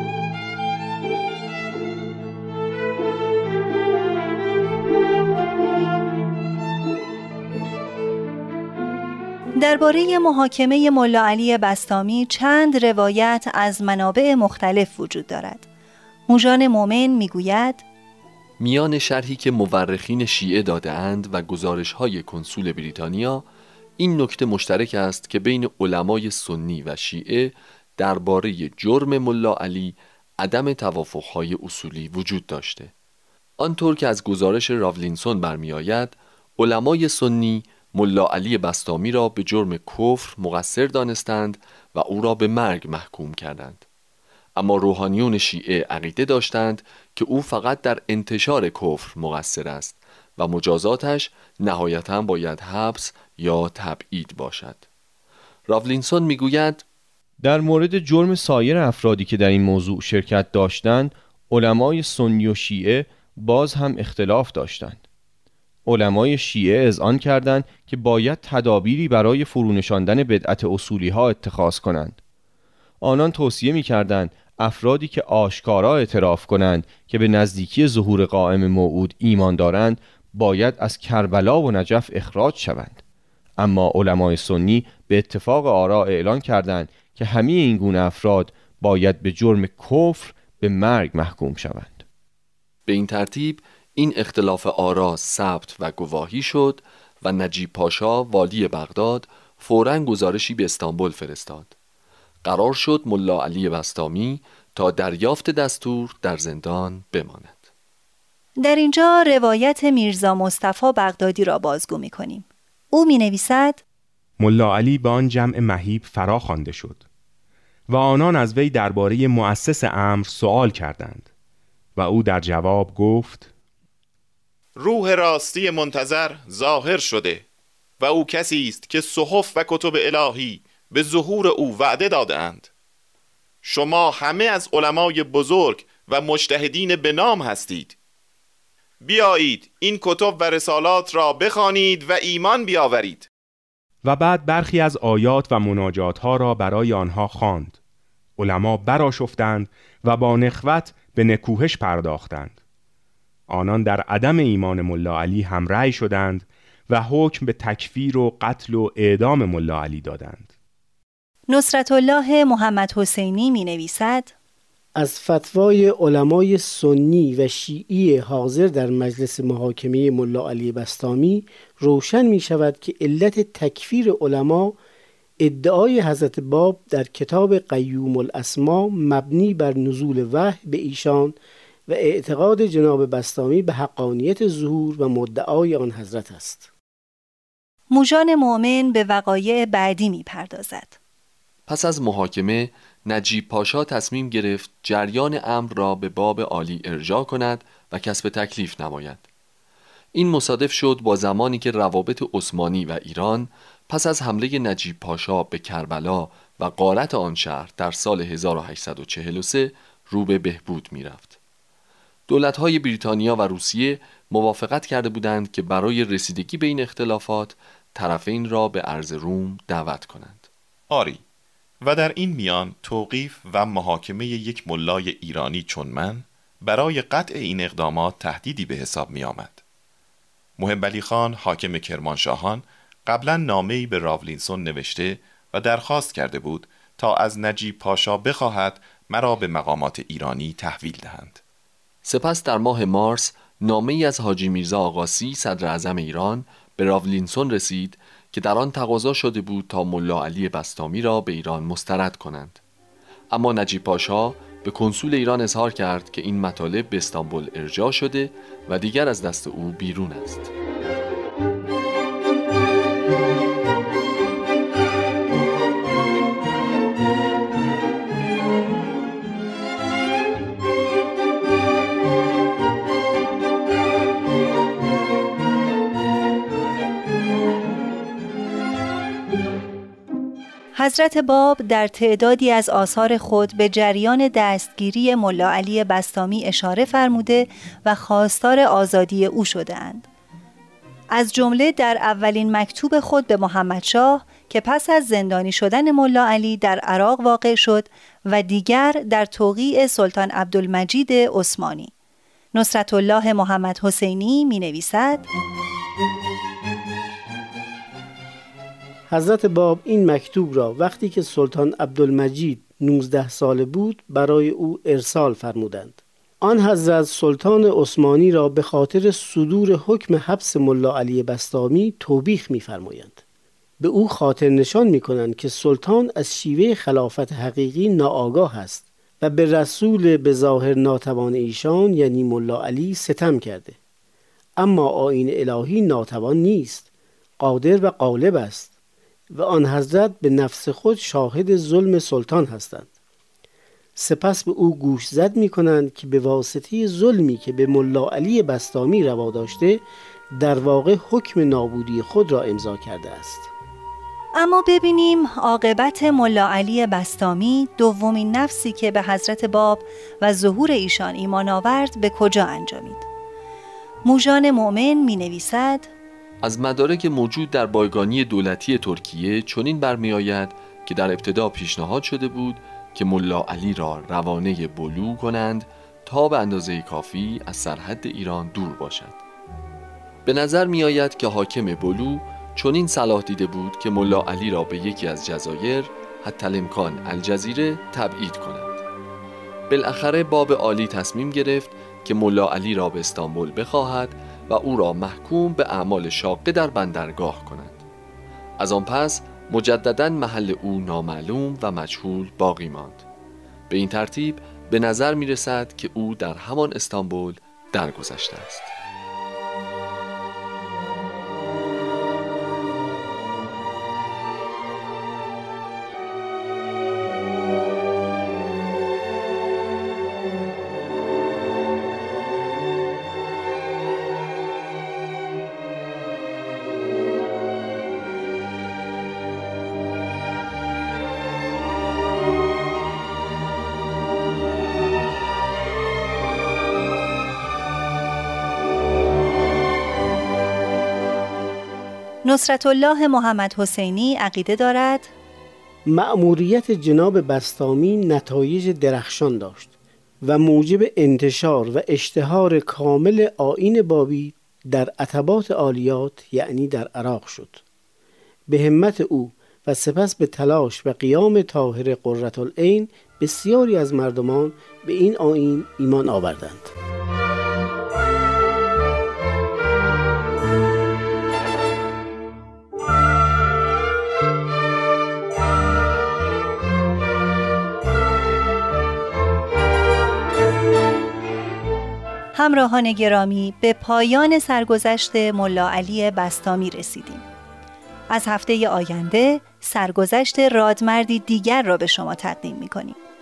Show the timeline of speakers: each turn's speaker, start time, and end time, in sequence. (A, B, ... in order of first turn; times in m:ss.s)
0:09.6-0:15.7 A
0:16.3-0:17.8 A
0:18.6-0:23.4 B
0:24.0-0:32.9 B
0:33.6-0:43.8 B
0:44.6-0:54.8 B
0:55.7-0:56.8 B
0:57.4-1:05.0 C
1:05.9-1:12.2 C
1:13.0-1:23.0 C
1:23.6-1:32.0 C
1:32.9-1:41.7 B
1:42.4-1:47.7 B
1:48.6-1:53.8 A
1:54.4-1:57.0 D
1:57.9-2:01.3 D
2:02.0-2:03.5 D
2:04.8-2:07.4 E
2:08.0-2:12.7 E
2:13.6-2:18.0 E
2:19.0-2:23.3 E
2:24.0-2:27.8 D
2:28.4-2:32.6 D
2:33.5-2:40.5 D
2:41.5-2:44.3 A
2:45.0-2:54.8 F
2:55.4-3:01.4 F
3:01.9-3:06.7 F
3:07.9-3:11.0 A
3:11.7-3:19.2 B
3:20.1-3:31.4 B
3:32.3-3:40.5 B
3:40.9-3:41.2 E
3:41.8-3:49.6 E
3:50.6-4:01.4 E
4:02.0-4:12.6 B
4:13.3-4:20.5 B
4:40.8-4:50.1 A
4:51.1-5:01.9 A
5:02.5-5:05.3 A
5:09.1-5:23.2 F
5:23.8-5:33.8 F
5:34.6-5:36.9 F
5:37.4-5:38.7 F
5:39.3-5:42.9 F
5:44.0-5:49.8 F
5:50.3-5:53.5 F
5:54.4-6:03.1 A
6:04.0-6:05.9 A
6:06.4-6:19.2 B
6:20.3-6:28.8 B
6:29.7-6:37.8 B
6:38.6-6:43.0 B
6:43.7-6:48.7 B
7:22.2-7:25.1 A
7:25.9-7:37.6 F
7:38.5-7:46.7 F
8:02.3-8:07.2 A
8:08.1-8:13.0 A